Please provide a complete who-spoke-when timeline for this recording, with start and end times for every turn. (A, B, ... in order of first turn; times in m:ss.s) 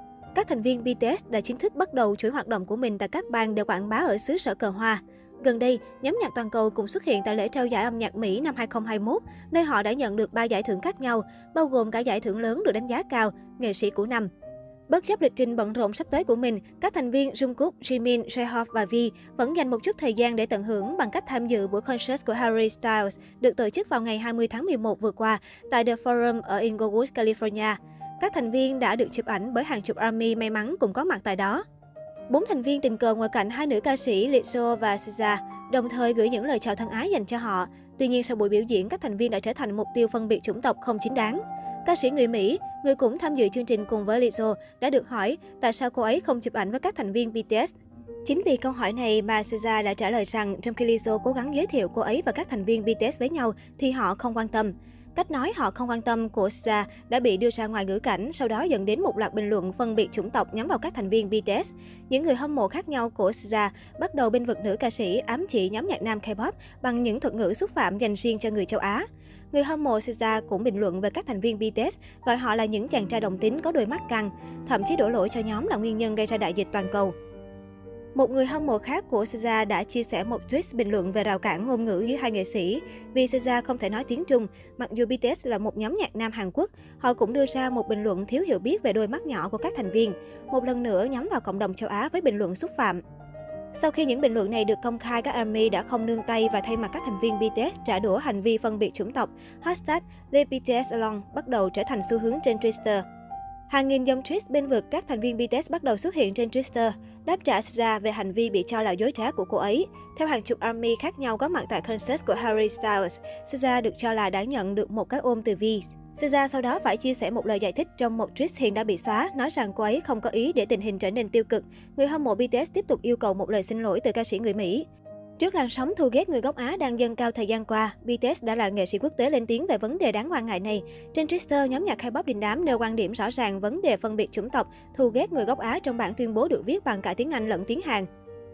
0:00.3-0:14.3 A
0:14.9-0:31.6 A
0:32.3-0:47.7 A
0:48.2-1:17.1 A
1:18.2-1:33.0 A
1:33.7-1:43.0 A
1:43.7-2:04.8 A
2:05.4-2:18.1 A